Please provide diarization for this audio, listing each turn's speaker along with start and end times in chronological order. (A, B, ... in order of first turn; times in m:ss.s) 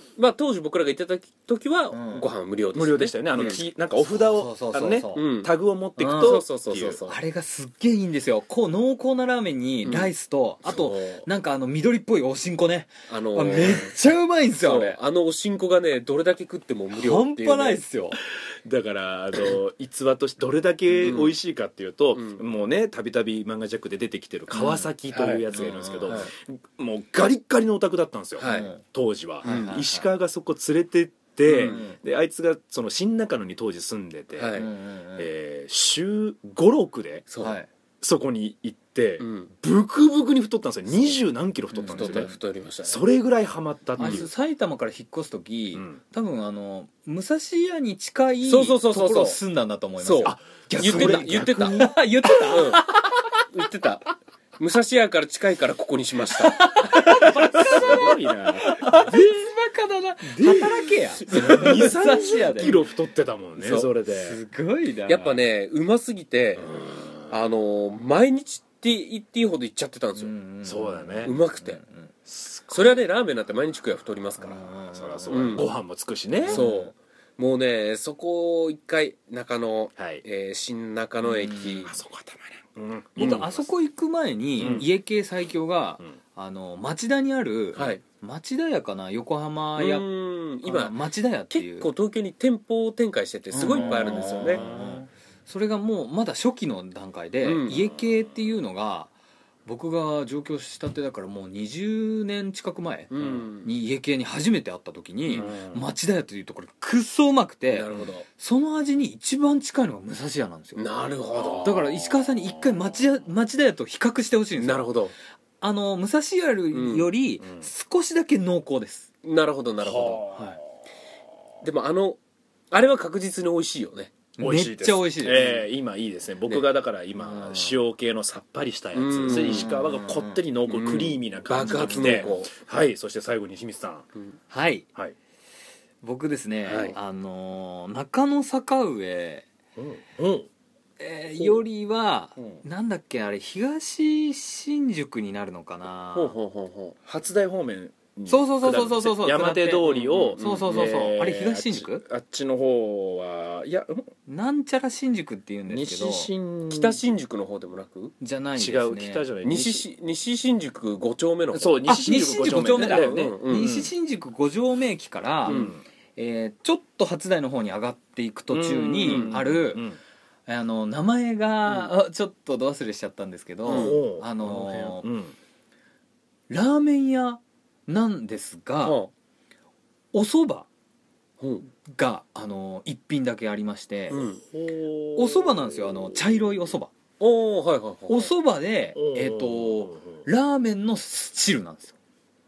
0:00.2-0:03.6 A
0:01.9-0:02.3 B
0:02.7-0:07.0 C
0:03.4-0:05.3 B
0:05.1-0:05.5 A
0:06.0-0:06.4 B
0:06.1-0:07.2 A
0:07.1-0:15.0 B
0:09.8-0:10.1 A
0:10.6-0:11.2 A
0:13.1-0:13.9 A
0:14.6-0:17.8 A
0:16.9-0:18.2 B
0:18.6-0:37.3 C
0:21.0-0:21.3 A
0:22.1-0:22.4 A
0:24.5-0:24.8 B
0:25.1-0:26.3 A
0:25.5-0:26.3 B
0:28.4-0:28.7 A
0:28.4-0:28.8 B
0:29.4-0:30.1 B
0:29.4-0:29.8 A
0:31.5-0:31.8 A
0:31.5-0:32.0 B
0:34.4-0:34.7 A
0:34.5-0:35.3 B
0:37.4-0:37.7 B
0:38.0-0:44.3 C
0:39.2-0:39.5 A
0:41.7-0:42.3 B
0:41.9-0:43.0 A
0:44.0-0:53.4 B
0:45.7-0:46.0 C
0:48.4-0:49.4 A
0:50.0-0:52.8 A
0:50.2-0:51.9 C
0:53.5-0:58.2 A
0:56.3-1:02.8 B
0:57.6-0:59.0 C
1:00.4-1:00.8 C
1:01.3-1:01.9 A
1:01.3-1:04.4 C
1:03.6-1:03.9 A
1:04.1-1:05.4 B
1:05.1-1:10.3 A
1:06.6-1:07.3 C
1:10.2-1:12.1 B
1:10.6-1:11.4 C
1:11.2-1:11.8 A
1:12.3-1:12.9 C
1:12.7-1:14.7 A
1:14.4-1:15.6 B
1:14.9-1:16.6 C
1:15.3-1:15.7 A
1:16.5-1:16.9 B
1:16.5-1:22.0 A
1:20.0-1:20.2 C
1:21.2-1:21.8 B
1:21.8-1:23.7 C
1:23.2-1:23.5 A
1:23.2-1:30.1 B
1:24.6-1:24.8 C
1:24.6-1:24.8 A
1:27.8-1:28.0 A
1:29.8-1:31.0 A
1:30.6-1:31.9 B
1:31.5-1:34.6 A
1:33.5-1:39.1 B
1:33.6-1:35.0 C
1:37.4-1:37.9 A
1:39.6-1:50.9 B
1:43.1-1:43.7 A
1:45.3-1:45.8 C
1:47.7-1:48.2 A
1:50.8-1:51.7 A
1:51.3-1:53.0 C
1:51.6-1:54.9 B
1:54.6-1:55.1 A
1:55.6-1:59.1 B
1:56.7-1:57.1 A
1:57.4-1:57.7 C
1:59.2-2:00.2 A
1:59.8-2:00.6 C
2:00.3-2:00.6 B
2:01.6-2:02.2 A
2:02.7-2:04.2 A
2:04.4-2:05.6 B
2:04.4-2:14.1 C
2:05.3-2:05.6 A
2:07.2-2:07.7 B
2:08.9-2:09.7 A
2:09.3-2:10.4 B
2:10.7-2:12.5 A
2:11.6-2:12.3 B
2:14.5-2:14.8 B
2:16.0-2:19.5 B
2:16.7-2:16.9 A
2:19.8-2:20.5 C
2:21.0-2:26.4 B
2:26.1-2:27.0 A
2:27.0-2:34.1 C
2:28.3-2:32.0 B
2:29.8-2:30.9 A
2:34.3-2:36.3 B
2:35.7-2:37.0 C
2:36.7-2:38.1 A
2:38.2-2:39.3 B
2:38.6-2:39.8 C
2:39.4-2:43.7 A
2:41.5-2:43.9 C
2:41.9-2:49.8 B
2:45.4-2:45.8 C
2:45.5-2:45.7 A
2:48.5-2:50.0 C
2:49.0-2:49.4 A
2:50.5-2:55.1 B
2:53.6-2:54.0 A
2:53.7-2:55.4 C
2:56.5-2:59.0 B
2:58.8-2:59.1 A
3:00.1-3:00.7 B
3:01.4-3:01.6 A
3:01.8-3:04.2 B
3:04.1-3:04.4 A
3:04.1-3:06.7 C
3:05.2-3:06.9 B
3:07.2-3:08.3 A
3:08.1-3:11.9 B
3:08.9-3:10.2 C